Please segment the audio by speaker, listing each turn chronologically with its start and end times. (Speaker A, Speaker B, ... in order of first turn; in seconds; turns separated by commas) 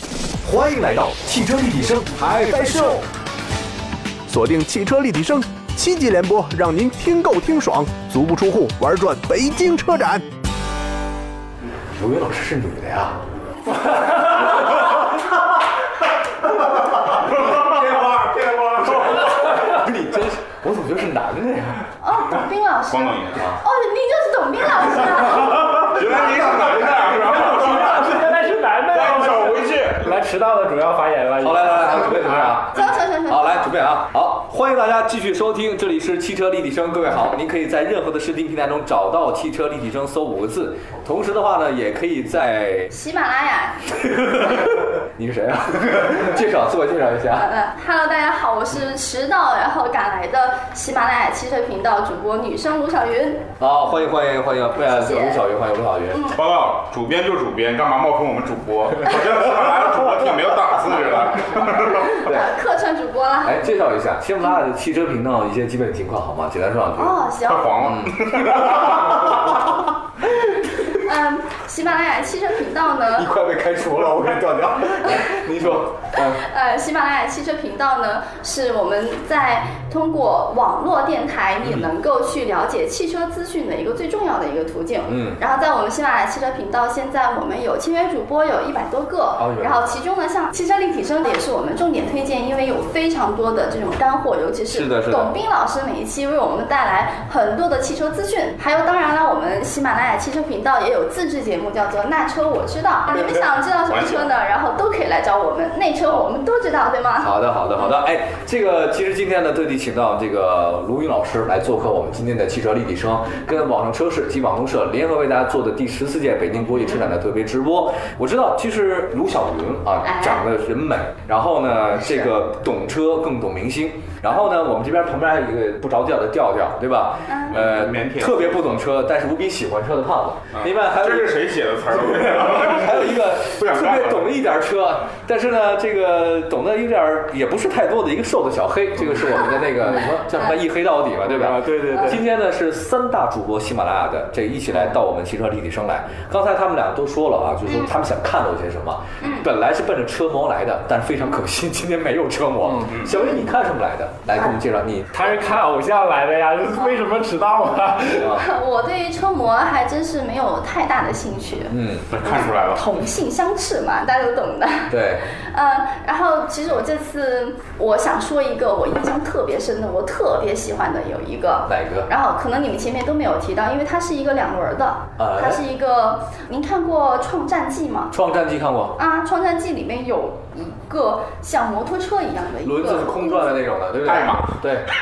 Speaker A: 0.4-3.0, Speaker B: 2.5-2.8, Speaker B: 4.3-10.3, Speaker A: 11.9-13.2, Speaker A: 14.2-15.0, Speaker C: 17.0-19.4, Speaker A: 17.5-21.9, Speaker D: 22.0-25.9, Speaker C: 22.9-23.5, Speaker C: 25.7-28.2, Speaker A: 25.9-27.1, Speaker E: 27.1-32.6, Speaker C: 28.9-30.1, Speaker A: 31.4-42.9, Speaker D: 32.7-33.6, Speaker D: 42.9-43.9, Speaker A: 44.0-47.5, Speaker D: 47.3-53.5, Speaker A: 53.6-56.2, Speaker D: 54.8-55.4, Speaker D: 56.1-56.4, Speaker C: 56.3-62.3, Speaker D: 62.0-63.7, Speaker A: 62.2-62.5, Speaker A: 63.4-67.2, Speaker D: 67.0-67.8, Speaker C: 67.5-69.4, Speaker A: 67.8-69.5, Speaker D: 70.9-73.3, Speaker A: 73.1-76.4, Speaker D: 76.1-107.9, Speaker A: 85.1-85.4, Speaker A: 89.4-89.8, Speaker A: 94.7-95.4, Speaker A: 103.1-103.4, Speaker C: 103.8-104.3, Speaker A: 107.2-155.5, Speaker D: 120.0-120.4, Speaker D: 122.0-122.3, Speaker D: 127.3-127.6, Speaker C: 127.5-128.6, Speaker C: 130.5-134.3, Speaker E: 141.2-142.2, Speaker D: 147.7-147.9, Speaker D: 149.2-149.5, Speaker E: 152.6-152.9, Speaker C: 152.9-153.2, Speaker E: 155.1-158.3, Speaker A: 158.1-158.5, Speaker D: 158.2-178.1, Speaker A: 161.7-162.1, Speaker C: 162.1-162.9, Speaker A: 164.9-165.2, Speaker A: 171.7-172.1, Speaker A: 175.2-175.6, Speaker A: 178.1-179.0, Speaker D: 179.0-183.6, Speaker A: 182.6-184.9, Speaker C: 184.0-184.6